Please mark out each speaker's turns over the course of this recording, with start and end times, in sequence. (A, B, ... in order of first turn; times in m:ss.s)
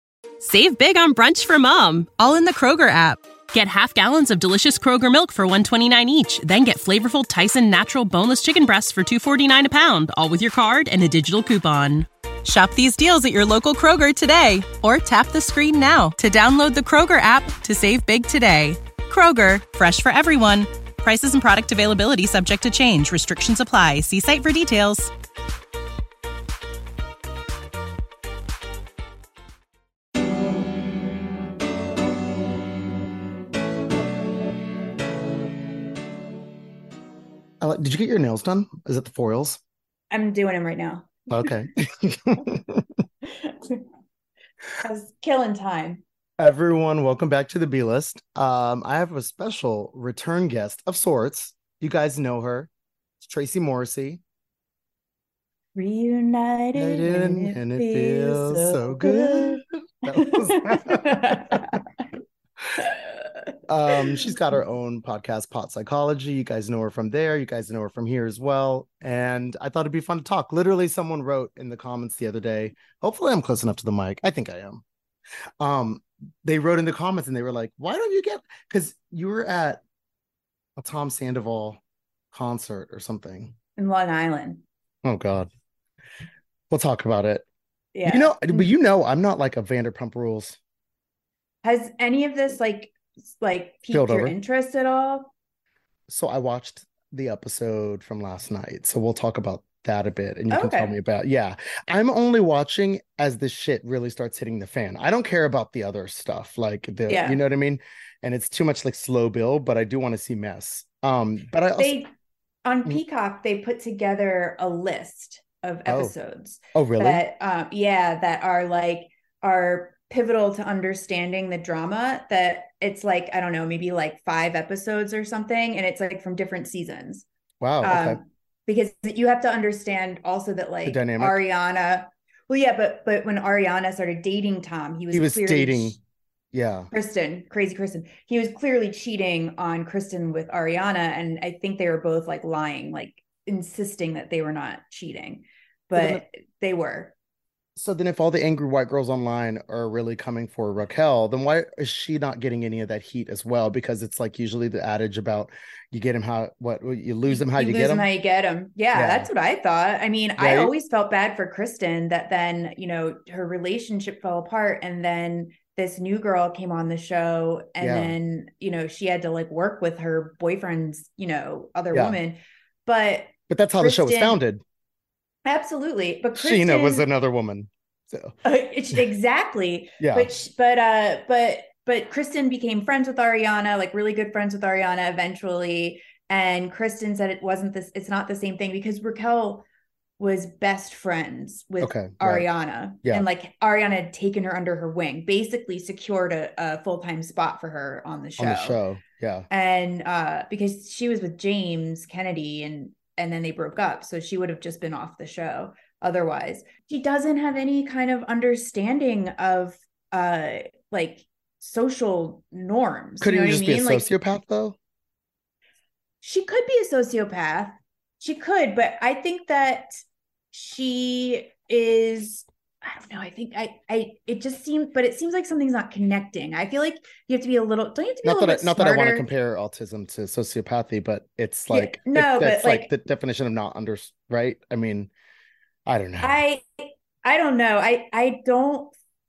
0:00.4-0:25.1 A
0:37.6-0:39.6 B
0:40.1-0:41.6 C
0:41.3-0:42.9 B
0:43.2-0:43.8 C
0:44.8-0:46.0 C
0:46.4-0:52.7 B
0:53.2-0:54.2 B
0:55.8-1:01.9 C
0:56.8-1:01.6 B
1:02.8-1:03.1 C
1:03.7-1:14.8 B
1:15.6-1:19.8 B
1:20.8-1:21.8 B
1:22.3-1:23.5 B
1:23.8-1:24.6 C
1:25.0-1:25.5 B
1:26.7-1:27.5 B
1:27.9-1:28.7 C
1:28.1-1:30.6 B
1:31.6-1:35.3 C
1:33.9-1:34.4 B
1:36.1-1:52.0 B
1:40.5-1:41.0 C
1:47.1-1:47.4 C
1:51.8-1:52.1 C
1:52.6-2:07.3 C
1:55.9-1:56.1 B
1:56.7-1:57.2 B
2:07.6-2:08.2 B
2:07.8-2:16.0 C
2:10.8-2:11.4 B
2:15.1-2:16.0 B
2:16.5-2:16.9 B
2:16.9-2:27.1 C
2:25.9-2:26.2 B
2:27.8-2:38.1 B
2:37.3-2:54.4 C
2:38.9-2:39.3 B
2:40.4-2:40.7 B
2:47.8-2:48.2 B
2:51.9-2:52.2 B
2:53.5-2:54.6 B
2:55.4-2:57.1 C
2:56.4-2:58.4 B
2:58.4-3:09.6 C
3:00.0-3:00.3 B
3:10.2-3:18.8 C
3:11.8-3:12.5 B
3:18.4-3:19.5 B
3:19.5-3:34.1 C
3:33.2-3:34.8 B
3:36.2-3:40.0 C
3:40.5-3:49.3 C
3:48.2-3:55.1 B
3:51.7-3:52.9 C
3:55.9-3:56.4 B
3:56.2-3:59.0 C